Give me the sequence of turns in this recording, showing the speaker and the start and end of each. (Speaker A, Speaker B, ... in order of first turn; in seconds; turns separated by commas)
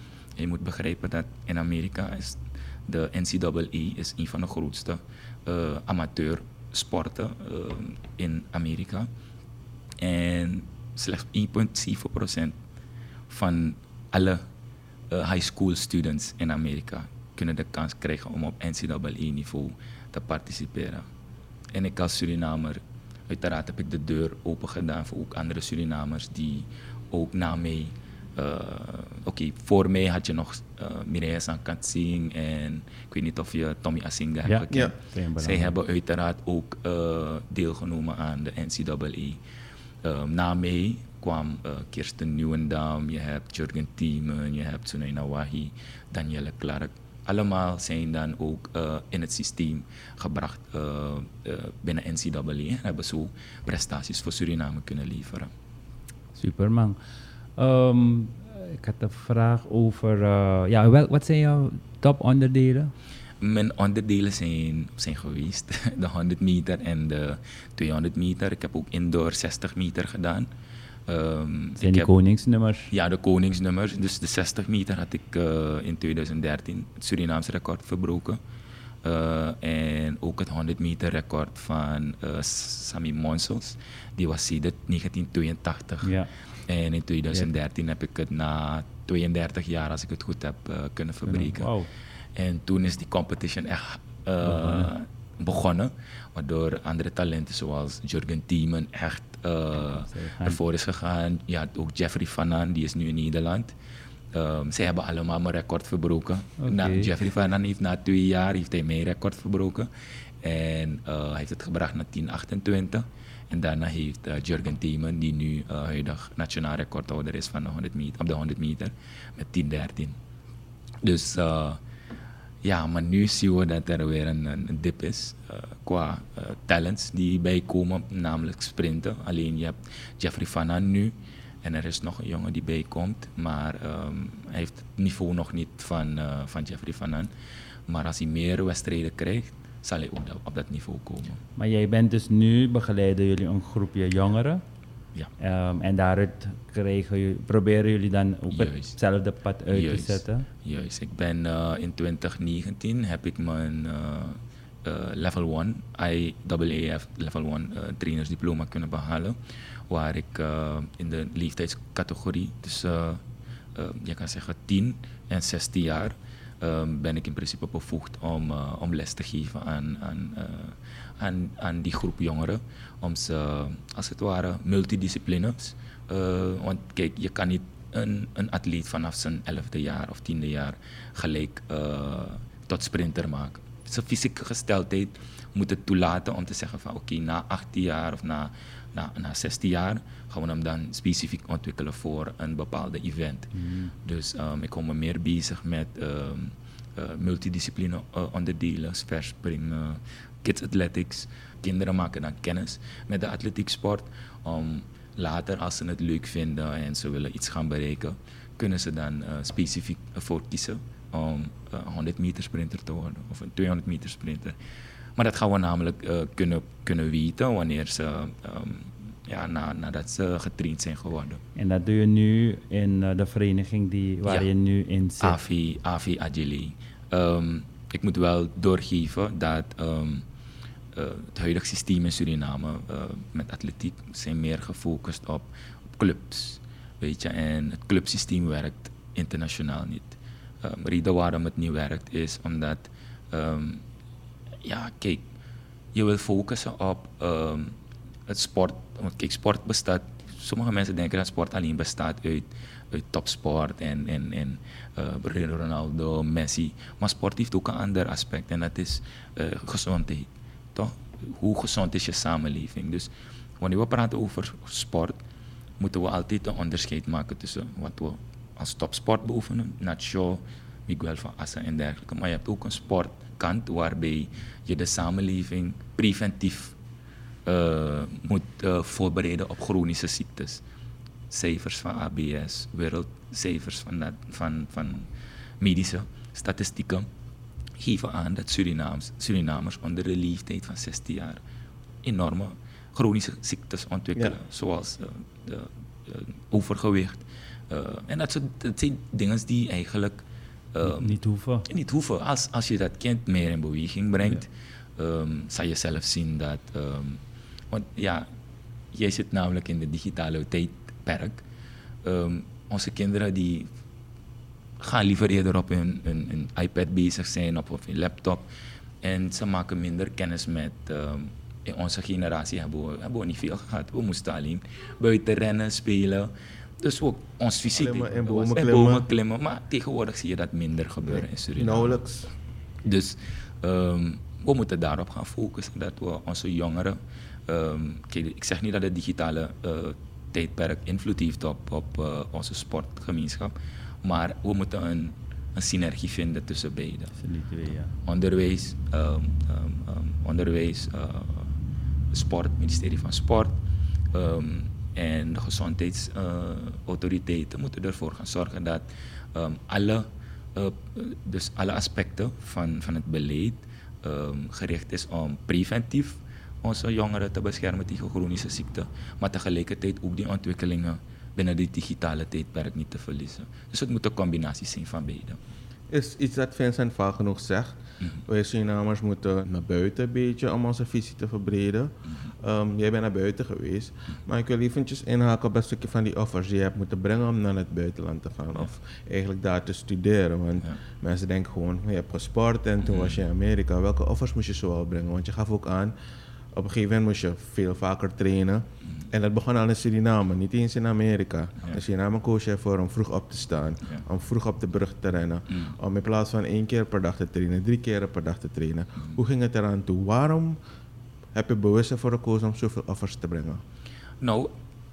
Speaker A: 0.4-9.1, Speaker A: 10.0-12.6, Speaker A: 13.3-14.4, Speaker A: 15.1-21.1, Speaker A: 21.7-39.4, Speaker B: 34.4-35.7, Speaker A: 40.0-55.5, Speaker B: 56.4-62.9, Speaker A: 63.4-70.5, Speaker A: 71.1-72.1, Speaker B: 71.8-72.9, Speaker A: 72.9-78.4, Speaker A: 79.0-91.7, Speaker B: 86.0-86.3, Speaker B: 91.3-91.9, Speaker A: 92.3-103.7, Speaker B: 94.4-94.9, Speaker B: 100.1-100.6, Speaker A: 104.3-109.9, Speaker B: 106.6-107.1, Speaker A: 110.4-120.2, Speaker A: 121.0-121.8, Speaker A: 122.6-137.3, Speaker A: 137.9-141.4, Speaker B: 141.6-144.6, Speaker B: 145.4-150.5, Speaker A: 148.5-149.0, Speaker A: 149.7-159.4, Speaker A: 159.9-163.2, Speaker A: 163.8-214.6, Speaker B: 193.5-193.9, Speaker A: 215.2-221.4, Speaker B: 221.6-225.4, Speaker A: 225.2-230.3, Speaker A: 230.9-243.8, Speaker A: 244.6-245.2, Speaker A: 245.9-247.8, Speaker A: 248.3-265.2, Speaker A: 265.8-276.8, Speaker A: 277.5-280.6, Speaker A: 281.3-287.1, Speaker A: 287.8-291.4, Speaker A: 292.0-308.3, Speaker B: 300.8-301.7, Speaker A: 308.9-311.4, Speaker A: 312.0-313.7, Speaker A: 314.8-318.5, Speaker A: 319.0-332.0, Speaker C: 327.7-329.1, Speaker C: 331.6-332.3, Speaker A: 332.8-347.1, Speaker B: 347.2-348.0, Speaker A: 348.0-351.5, Speaker A: 352.1-353.6, Speaker A: 354.1-375.4, Speaker C: 375.9-377.8, Speaker C: 378.3-395.9, Speaker A: 392.8-393.2, Speaker C: 396.5-410.6, Speaker C: 411.3-413.6, Speaker A: 414.2-414.5